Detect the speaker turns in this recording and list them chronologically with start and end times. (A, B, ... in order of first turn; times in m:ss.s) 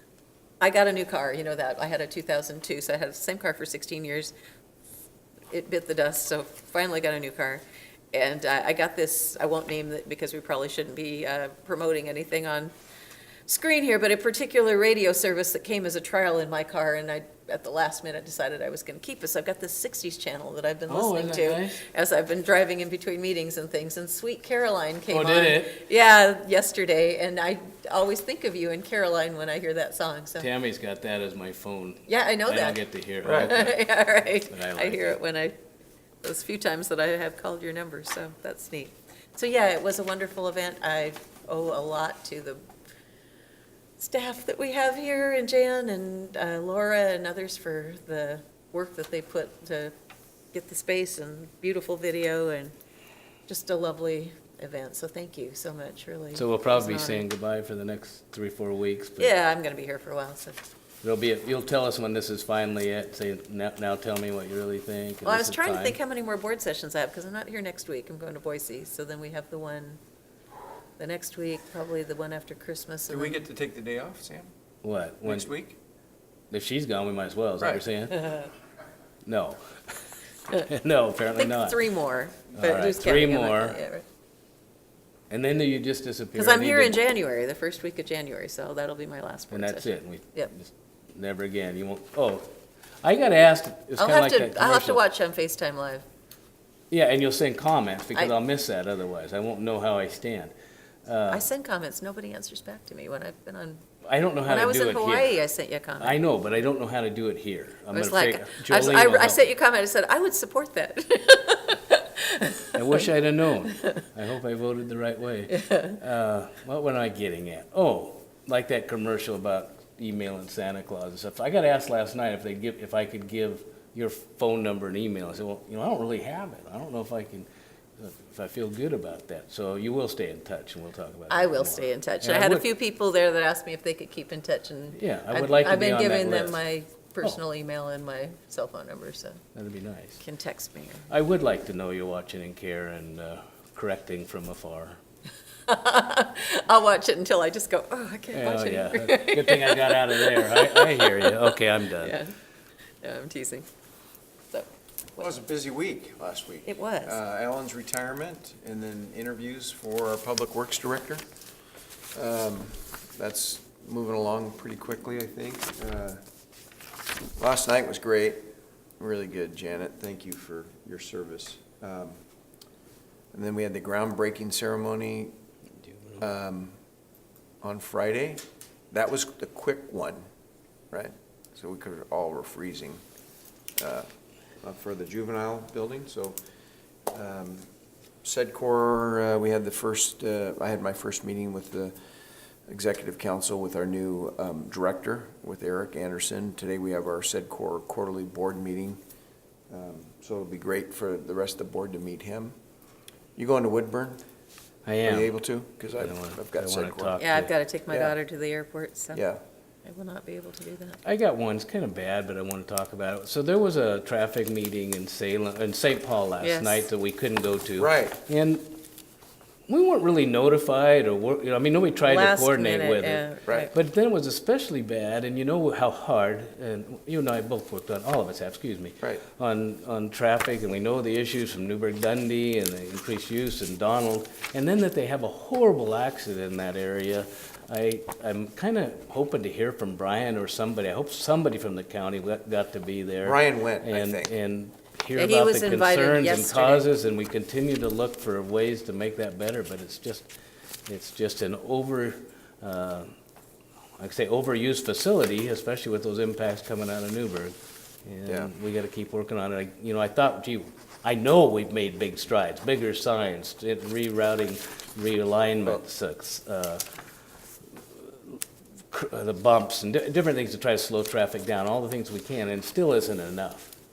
0:00.6-0:04.3 A
0:05.5-0:12.7 A
0:13.4-0:30.5 A
0:20.9-0:21.8 B
0:25.1-0:25.8 B
0:30.4-0:33.9 B
0:32.1-0:35.5 A
0:33.2-0:33.5 C
0:34.5-0:35.2 B
0:36.2-0:42.6 A
0:44.0-0:49.9 A
0:50.5-0:52.7 A
0:53.5-0:57.2 A
0:56.3-0:59.3 B
0:59.2-1:00.6 A
1:01.0-1:06.0 B
1:05.2-1:10.0 A
1:11.0-1:13.4 A
1:13.1-1:14.5 C
1:14.8-1:15.5 B
1:15.2-1:15.8 C
1:16.5-1:18.3 B
1:17.6-1:17.8 C
1:18.2-1:18.5 A
1:19.2-1:19.6 B
1:20.5-1:21.8 B
1:21.3-1:24.0 A
1:22.5-1:23.8 B
1:25.3-1:27.0 B
1:26.3-1:30.5 A
1:29.5-1:32.5 B
1:33.0-1:35.0 B
1:34.0-1:36.0 A
1:36.9-1:40.5 B
1:41.0-1:41.4 B
1:41.3-1:43.8 A
1:44.1-1:45.4 B
1:44.4-1:46.2 A
1:46.0-1:49.4 B
1:47.9-1:53.1 A
1:52.7-2:12.6 B
1:55.5-1:56.0 A
2:11.3-2:19.4 A
2:14.9-2:16.6 B
2:19.5-2:20.2 B
2:20.2-2:21.1 A
2:21.1-2:25.0 B
2:25.7-2:32.3 A
2:28.3-2:32.2 B
2:33.0-2:33.7 A
2:34.5-2:35.3 A
2:35.2-2:41.2 C
2:36.6-2:37.2 A
2:42.1-2:46.2 C
2:47.4-2:48.4 C
2:49.0-2:52.2 C
2:53.3-2:55.4 C
2:56.2-2:56.8 C
2:57.6-3:00.2 C
3:00.9-3:03.0 C
3:03.8-3:04.1 C
3:04.6-3:06.4 C
3:07.1-3:07.7 C
3:08.2-3:12.0 C
3:12.7-3:19.0 C
3:19.7-3:22.5 C
3:23.4-3:24.2 C
3:24.8-3:25.3 B
3:25.0-3:27.2 C
3:26.0-3:27.5 B
3:27.2-3:29.2 A
3:27.9-3:28.1 C
3:29.1-3:29.4 C
3:29.8-3:31.0 A
3:31.0-3:38.7 B
3:36.4-3:36.8 A
3:37.8-3:38.2 C
3:39.7-4:10.3 B
3:42.0-3:43.7 A
4:03.2-4:04.3 C
4:05.1-4:06.9 A
4:10.9-4:13.1 B
4:14.0-4:17.5 B
4:18.0-4:26.8 B
4:18.2-4:18.5 C
4:27.9-4:28.4 B
4:28.9-4:33.7 B